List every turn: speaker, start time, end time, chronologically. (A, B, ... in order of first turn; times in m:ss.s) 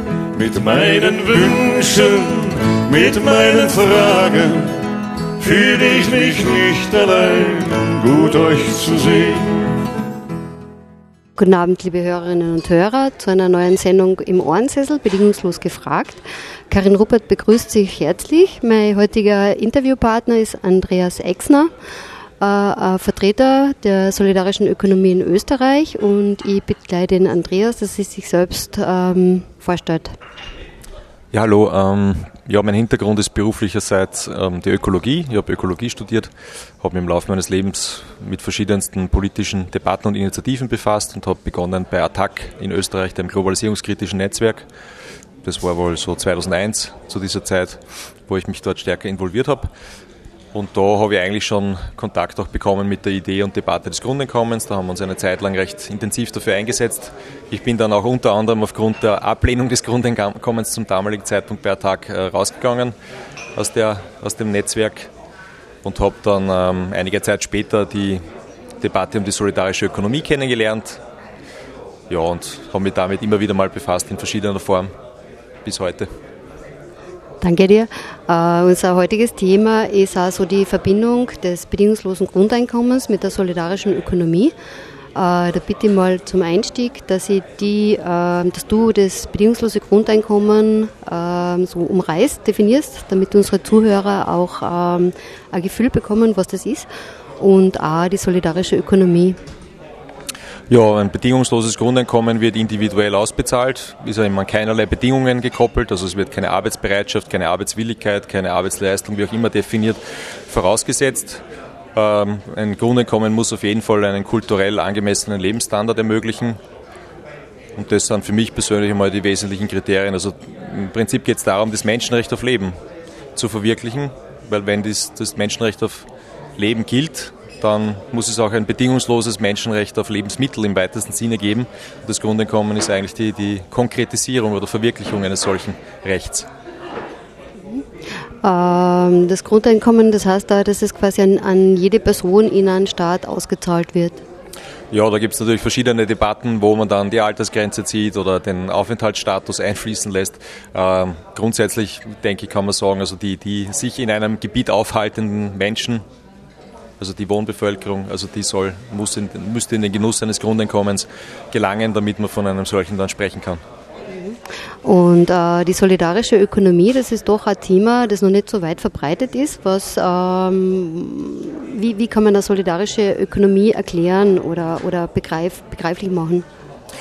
0:00.3-0:04.8 A
0:05.4-0:09.6 A
0:11.4-0:21.7 B
0:22.4-0:30.1 B
0:31.3-0:44.6 C
0:45.4-0:49.7 C
0:50.5-1:02.9 C
1:03.5-1:05.1 C
1:05.8-1:08.2 C
1:08.8-1:11.0 C
1:12.1-1:14.9 C
1:15.6-1:16.1 C
1:17.4-1:24.5 B
1:25.1-1:36.9 B
1:37.4-1:39.4 B
1:40.7-1:51.4 C
1:51.9-1:56.6 C
1:57.7-2:02.7 C
2:03.3-2:16.5 C
2:18.4-2:24.2 B
2:24.9-2:36.0 C
2:37.0-2:43.6 C
2:44.1-2:56.4 B